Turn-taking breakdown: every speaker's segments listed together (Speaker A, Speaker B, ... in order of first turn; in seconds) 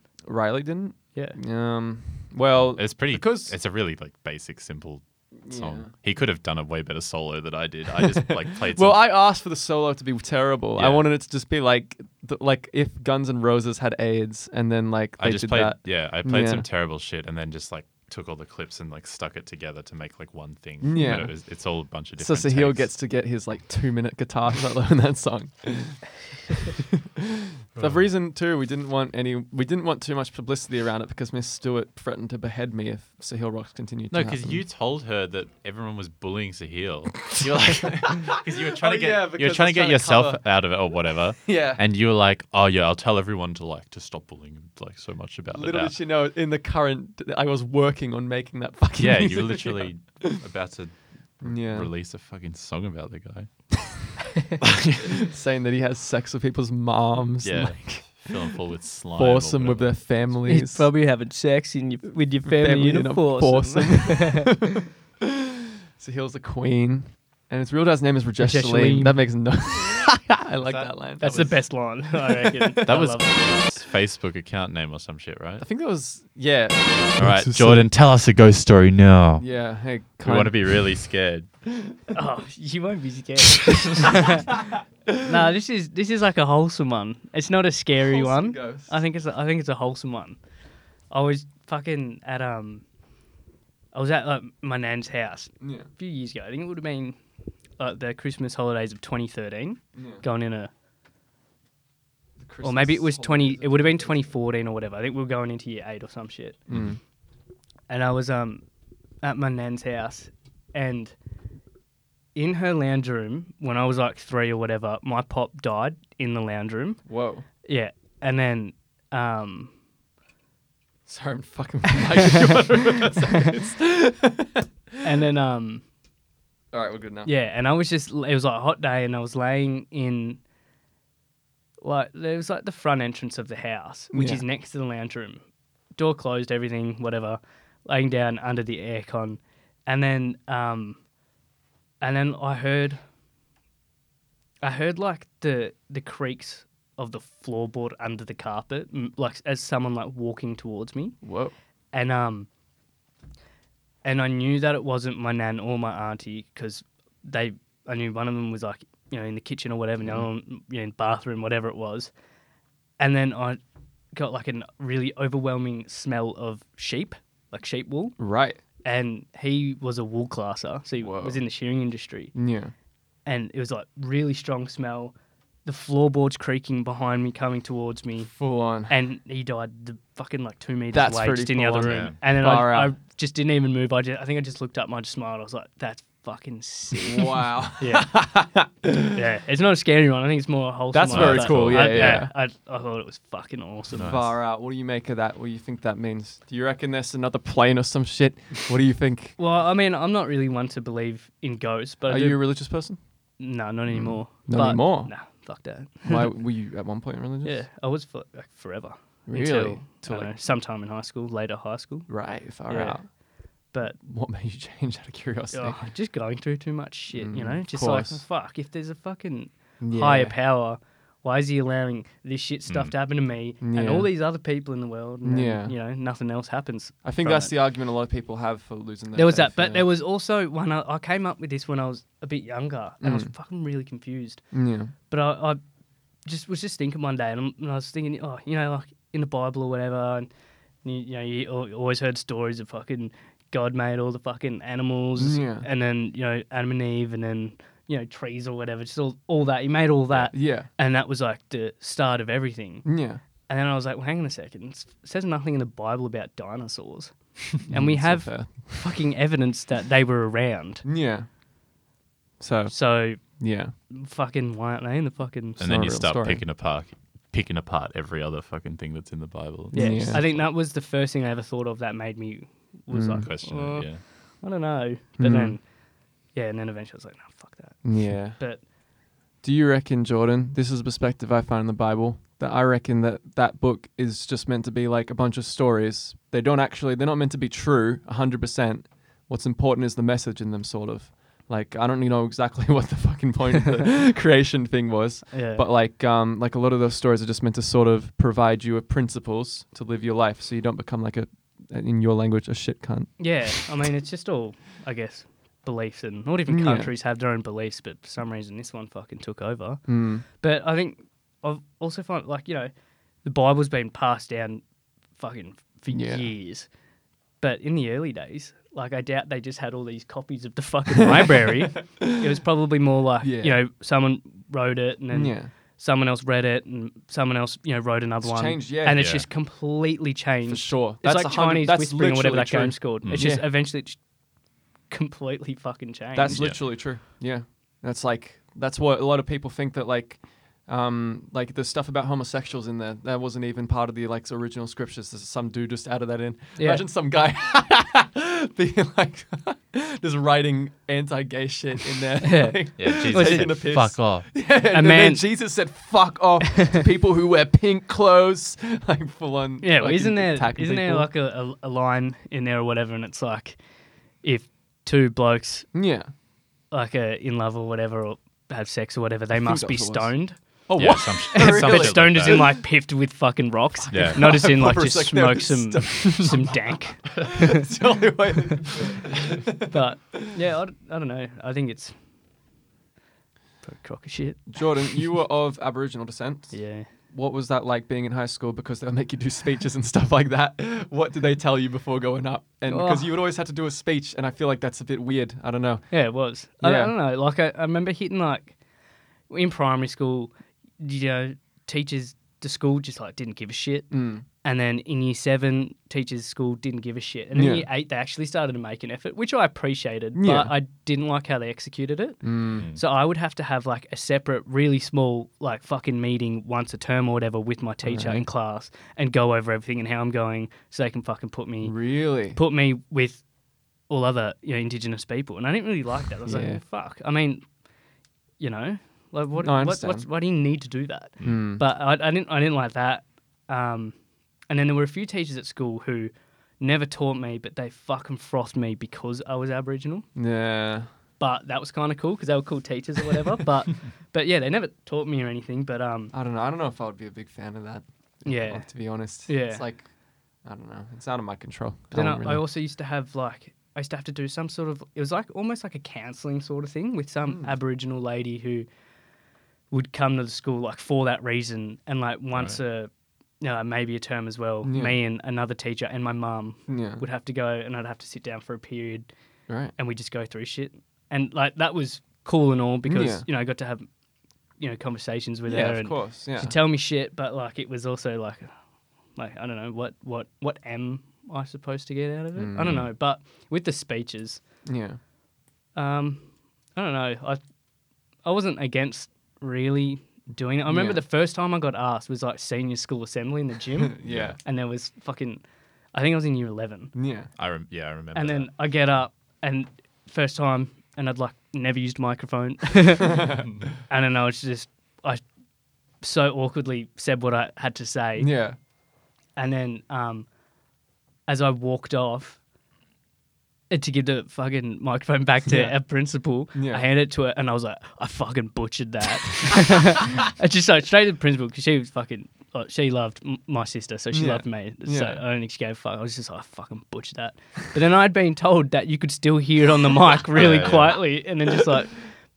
Speaker A: 0.3-3.5, 5.4-5.9, 8.7-16.6, 20.8-21.4, 22.1-34.6, 38.1-40.5, 41.4-41.8, 45.5-50.4, 51.4-51.9, 55.2-58.3, 59.1-60.9, 62.4-64.8, 66.0-71.8, 72.5-72.8, 75.6-77.9, 79.4-80.7, 88.0-88.9, 95.6-95.9, 99.9-100.2, 102.4-104.3, 106.7-107.0, 117.1-117.4, 121.0-124.7, 126.7-127.3, 134.1-134.4, 151.2-151.5, 168.2-168.6, 171.0-171.4, 172.3-172.7, 178.3-178.9, 180.9-182.9, 187.0-189.2, 190.9-192.3, 194.0-199.4, 202.1-203.0, 203.9-205.1, 206.0-207.6, 209.3-210.3, 212.1-213.1, 213.9-215.8, 217.1-218.2, 219.8-220.3, 223.6-224.1, 225.2-225.7, 227.0-229.9, 233.0-233.3, 234.5-234.9, 245.2-245.7, 250.1-250.7, 252.8-253.2, 257.7-258.8, 260.8-261.3, 262.4-263.7, 265.6-266.4, 269.7-270.2, 272.9-273.3, 275.2-275.6, 277.8-278.6, 279.4-303.3, 306.5-306.9, 309.9-310.2, 315.9-316.3, 323.2-323.6, 325.1-325.5, 328.2-329.0, 330.5-333.5, 336.1-361.1, 365.7-366.1, 369.3-372.6, 373.9-380.3, 384.5-396.1, 396.6-396.9, 403.9-404.2, 407.3-407.7, 410.1-410.5, 412.2-412.6, 417.8-418.2, 421.6-422.4, 426.2-426.6, 429.3-430.1, 431.2-431.6, 440.1-440.9, 446.1-449.9, 450.4-452.4, 457.2-457.5, 464.6-464.9, 466.7-467.0, 469.5-469.7, 472.8-473.2, 475.5-476.5, 482.4-482.8, 484.6-485.0, 490.7-491.0, 493.9-494.4, 496.9-497.3, 503.1-503.4, 508.2-508.6, 515.5-515.8, 516.5-516.9, 524.1-525.2
Speaker B: 2.6-9.0, 10.8-11.1, 15.2-22.9, 27.7-28.1, 34.1-46.0, 49.0-53.9, 54.6-55.1, 57.4-60.1, 72.9-75.6, 77.2-79.5, 80.2-81.5, 181.8-182.2, 191.1-192.2, 193.9-194.3, 222.7-222.9, 265.6-270.4, 273.2-274.0, 328.9-329.2, 333.0-333.3, 336.3-336.6, 352.8-354.3, 370.8-372.6, 373.9-374.4, 412.6-412.8, 494.1-494.4, 497.4-498.5, 530.3-531.0
Speaker C: 60.5-64.5, 68.4-69.9, 71.2-73.8, 82.1-84.6, 85.2-90.4, 91.1-92.8, 93.9-97.2, 97.8-100.7, 102.6-106.6, 107.9-108.6, 109.2-111.1, 112.3-117.0, 117.6-119.7, 125.0-125.8, 127.2-130.4, 131.8-135.4, 136.0-141.0, 142.0-143.0, 144.6-151.2, 151.9-152.5, 154.0-162.1, 163.0-163.6, 164.1-168.2, 168.8-172.3, 173.2-175.1, 175.6-178.3, 178.9-188.2, 189.1-194.2, 199.4-202.5, 203.4-206.3, 207.4-213.1, 213.7-214.0, 215.5-227.6, 229.1-234.5, 235.1-235.6, 236.2-240.3, 240.8-260.8, 262.7-265.6, 269.7-275.7, 276.3-278.6, 295.3-295.6, 303.2-312.7, 313.2-314.6, 315.2-316.7, 317.4-334.1, 334.9-336.5, 346.6-346.8, 352.2-353.7, 354.7-355.3, 359.6-363.6, 364.2-365.7, 366.7-377.4, 379.7-381.9, 383.6-385.0, 386.5-386.9, 392.7-393.1, 395.9-398.5, 399.3-423.2, 423.9-427.4, 428.4-433.9, 434.5-440.1, 441.2-446.1, 448.2-449.6, 451.9-458.7, 459.7-462.9, 463.4-469.1, 469.8-473.9, 474.6-478.5, 479.1-484.4, 485.7-487.4, 488.2-495.4, 495.9-496.9, 498.1-503.3, 503.9-505.2, 506.0-508.3, 509.4-510.3, 511.3-512.4, 513.7-532.1